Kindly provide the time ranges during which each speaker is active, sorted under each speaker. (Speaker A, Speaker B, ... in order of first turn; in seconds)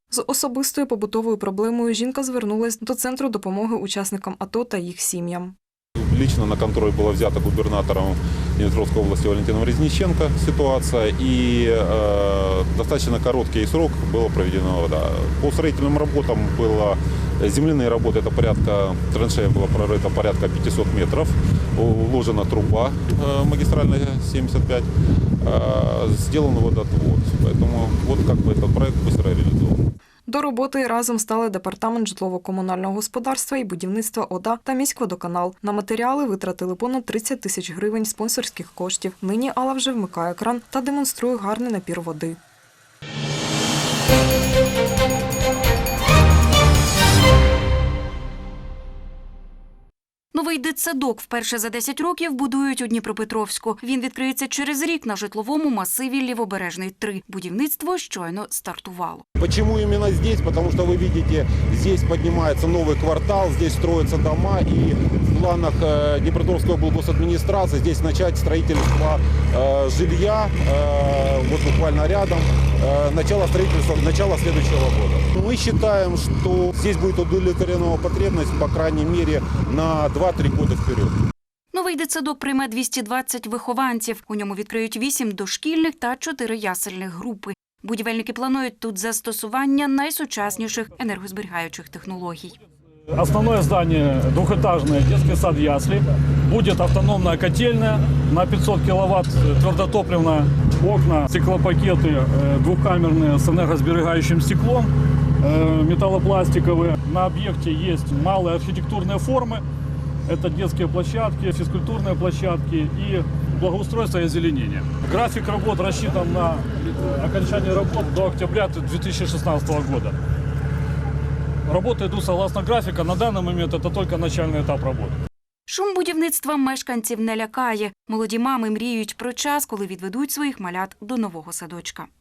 Speaker A: 0.1-5.5, 30.3-42.4
Speaker B: 6.0-24.9, 25.4-29.8, 59.4-81.2
Speaker C: 50.3-59.2, 81.7-92.6, 125.7-132.1
Speaker D: 93.1-109.6, 110.3-120.2, 121.7-125.2